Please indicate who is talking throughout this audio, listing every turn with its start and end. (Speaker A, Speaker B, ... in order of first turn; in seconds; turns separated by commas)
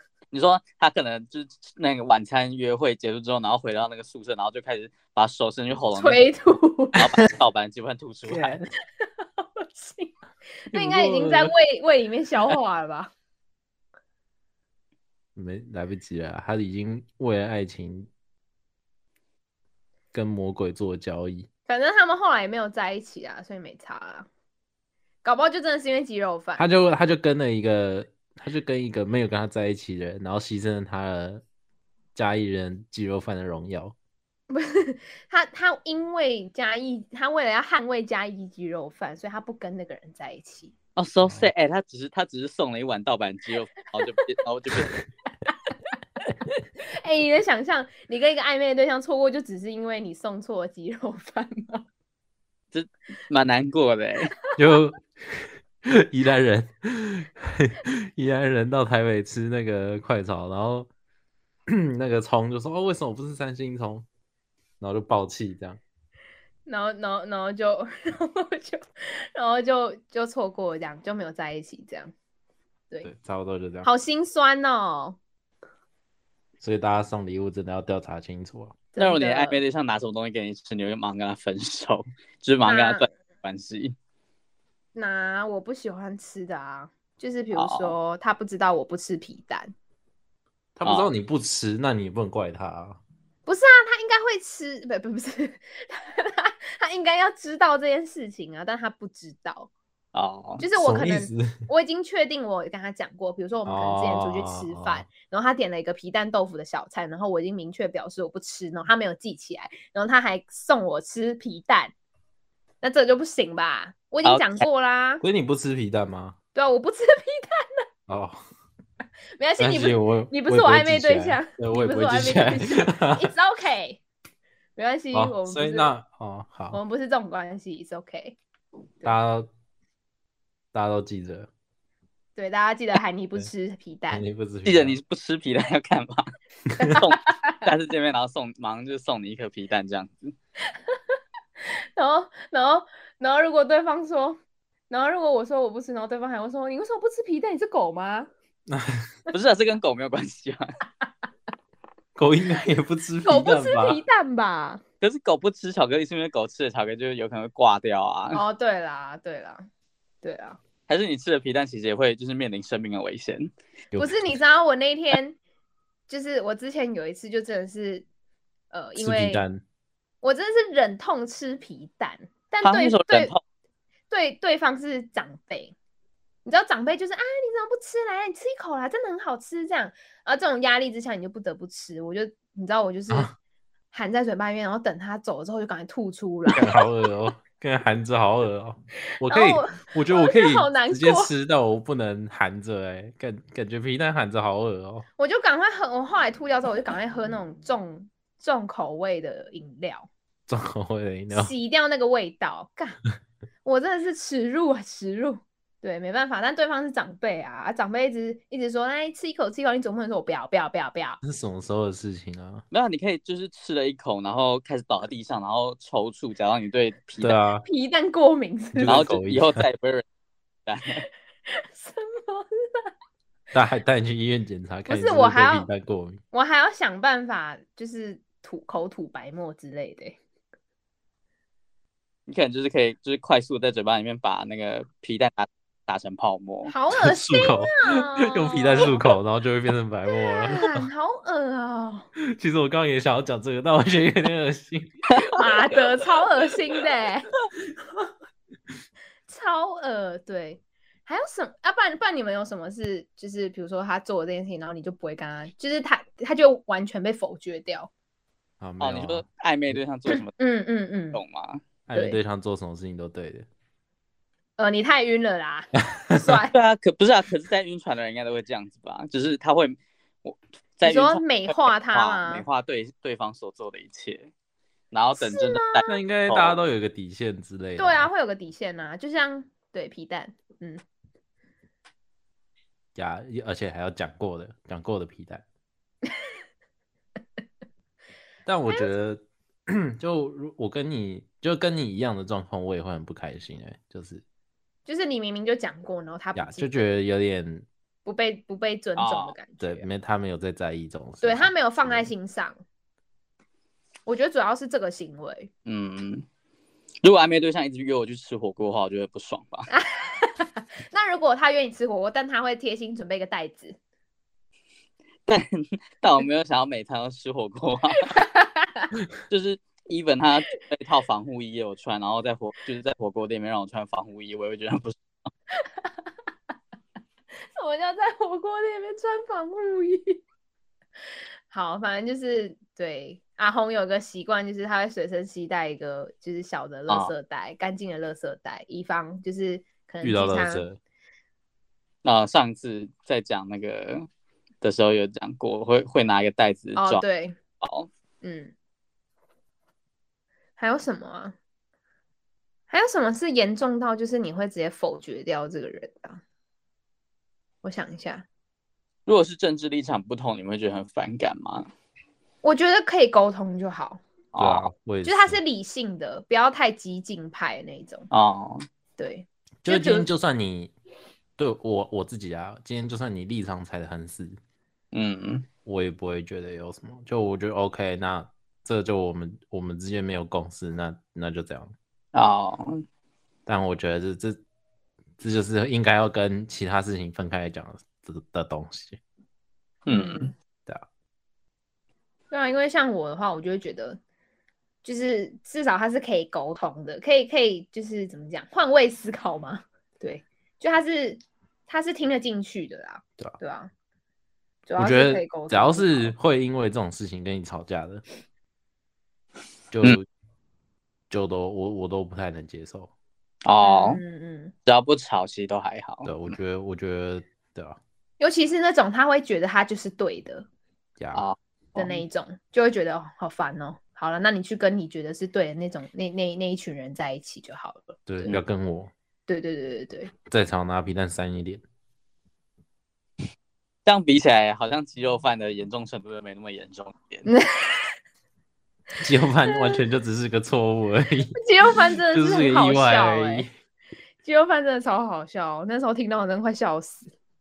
Speaker A: 0.3-6.2, Speaker B: 5.9-7.0, Speaker A: 7.0-8.5, Speaker C: 8.3-8.7, Speaker B: 9.0-10.1, Speaker B: 10.7-13.1, Speaker C: 10.7-11.5, Speaker C: 15.4-18.1, Speaker C: 20.1-21.5, Speaker B: 21.7-24.3, Speaker B: 25.2-26.6, Speaker C: 26.6-31.4, Speaker C: 32.1-34.0, Speaker B: 34.5-40.7, Speaker A: 41.0-45.0, Speaker B: 47.0-51.9, Speaker A: 52.7-54.4, Speaker C: 54.6-60.9, Speaker C: 61.7-64.1, Speaker C: 64.8-65.8, Speaker B: 66.7-68.8, Speaker B: 69.3-72.1, Speaker C: 73.0-73.9, Speaker B: 73.8-75.2, Speaker C: 76.6-78.8, Speaker B: 78.9-79.6, Speaker A: 79.0-84.0, Speaker B: 82.7-83.1, Speaker B: 85.0-89.7, Speaker A: 87.5-88.0, Speaker C: 90.8-93.0, Speaker B: 93.5-99.7, Speaker A: 100.1-100.6, Speaker B: 100.6-111.9, Speaker C: 100.8-101.6, Speaker C: 103.7-105.1, Speaker B: 112.8-115.2, Speaker A: 114.2-114.6, Speaker C: 115.2-116.3, Speaker B: 116.5-117.8, Speaker C: 118.1-118.4, Speaker B: 119.4-124.0, Speaker C: 119.6-123.3, Speaker B: 124.8-125.9, Speaker C: 125.1-126.8, Speaker B: 126.7-128.4, Speaker C: 129.1-129.5, Speaker C: 130.7-131.5, Speaker B: 132.4-134.2, Speaker C: 134.1-135.0, Speaker A: 134.7-136.3, Speaker B: 136.8-137.6, Speaker A: 136.9-140.3, Speaker B: 142.0-148.3, Speaker C: 148.7-149.1, Speaker A: 149.3-150.7, Speaker C: 152.2-154.0, Speaker B: 153.2-154.8, Speaker A: 155.0-158.4, Speaker B: 158.3-159.7, Speaker B: 160.2-160.6, Speaker A: 160.9-163.5, Speaker C: 163.9-164.2, Speaker B: 164.0-165.4, Speaker B: 166.1-168.1, Speaker B: 168.7-169.4, Speaker C: 169.0-169.6, Speaker B: 170.2-173.3, Speaker A: 172.6-173.4, Speaker B: 174.1-175.8, Speaker B: 176.4-183.3, Speaker B: 183.9-186.9, Speaker C: 186.5-195.1, Speaker B: 189.3-191.3, Speaker B: 195.2-200.1, Speaker C: 200.5-201.5, Speaker B: 201.3-203.0, Speaker B: 203.6-211.2, Speaker C: 211.2-212.6, Speaker A: 212.7-217.4, Speaker C: 217.2-217.7, Speaker B: 217.7-219.1, Speaker C: 218.7-219.7, Speaker A: 218.9-220.0, Speaker A: 220.7-221.1, Speaker B: 221.5-222.9, Speaker C: 223.5-226.2, Speaker B: 224.9-225.7, Speaker B: 226.3-230.2, Speaker A: 232.3-236.7, Speaker B: 236.7-238.9, Speaker C: 236.9-240.9, Speaker B: 240.1-242.1, Speaker C: 242.3-245.0, Speaker B: 245.2-247.3, Speaker B: 249.3-257.9, Speaker C: 258.6-259.2, Speaker A: 258.8-260.3, Speaker B: 260.4-261.2, Speaker A: 261.1-261.6, Speaker C: 261.9-263.5, Speaker B: 264.6-266.6, Speaker A: 266.5-274.3, Speaker B: 270.8-272.4, Speaker A: 274.9-276.6, Speaker B: 275.2-275.9, Speaker C: 275.9-278.1, Speaker B: 277.8-280.8, Speaker C: 282.9-285.4, Speaker C: 288.5-294.2, Speaker B: 288.7-288.9, Speaker B: 294.9-296.9, Speaker C: 296.4-297.7, Speaker B: 298.1-299.9, Speaker A: 299.0-299.4, Speaker C: 299.6-302.1, Speaker B: 301.2-302.6, Speaker B: 304.1-305.5, Speaker A: 305.7-306.3, Speaker A: 307.0-309.7, Speaker B: 309.7-313.8, Speaker A: 315.3-318.1, Speaker B: 318.0-318.9, Speaker A: 319.3-325.3, Speaker B: 327.5-330.2, Speaker B: 331.5-340.7, Speaker C: 340.0-340.8, Speaker A: 342.0-344.1, Speaker A: 344.6-347.0, Speaker B: 346.8-347.4, Speaker A: 347.6-347.9, Speaker B: 348.2-348.5, Speaker B: 350.6-351.4, Speaker B: 352.7-356.2, Speaker B: 357.6-358.3, Speaker A: 359.1-361.7, Speaker B: 362.4-364.0, Speaker A: 364.3-364.7, Speaker C: 364.4-365.4, Speaker B: 365.0-368.1, Speaker A: 368.1-368.6, Speaker B: 369.0-370.1, Speaker C: 369.6-370.7, Speaker C: 371.4-374.4, Speaker A: 374.9-375.4, Speaker C: 375.6-381.7, Speaker A: 382.1-382.8, Speaker C: 383.5-384.4, Speaker C: 385.2-389.0, Speaker A: 389.9-390.3, Speaker B: 389.9-390.3, Speaker B: 392.3-394.0, Speaker B: 394.8-403.7, Speaker B: 404.7-406.1, Speaker C: 404.8-408.0, Speaker C: 409.7-410.1, Speaker C: 411.1-412.9, Speaker A: 413.4-414.0, Speaker B: 413.6-414.5, Speaker A: 414.7-416.4, Speaker C: 416.1-417.8, Speaker B: 418.2-420.5, Speaker C: 421.0-421.2, Speaker A: 421.1-422.0, Speaker B: 421.8-428.1, Speaker C: 428.1-428.9, Speaker B: 429.3-430.1, Speaker C: 430.3-431.6, Speaker A: 433.9-437.3, Speaker B: 437.3-437.9, Speaker C: 439.0-443.5, Speaker B: 439.5-439.8, Speaker B: 441.4-443.5, Speaker B: 444.2-447.1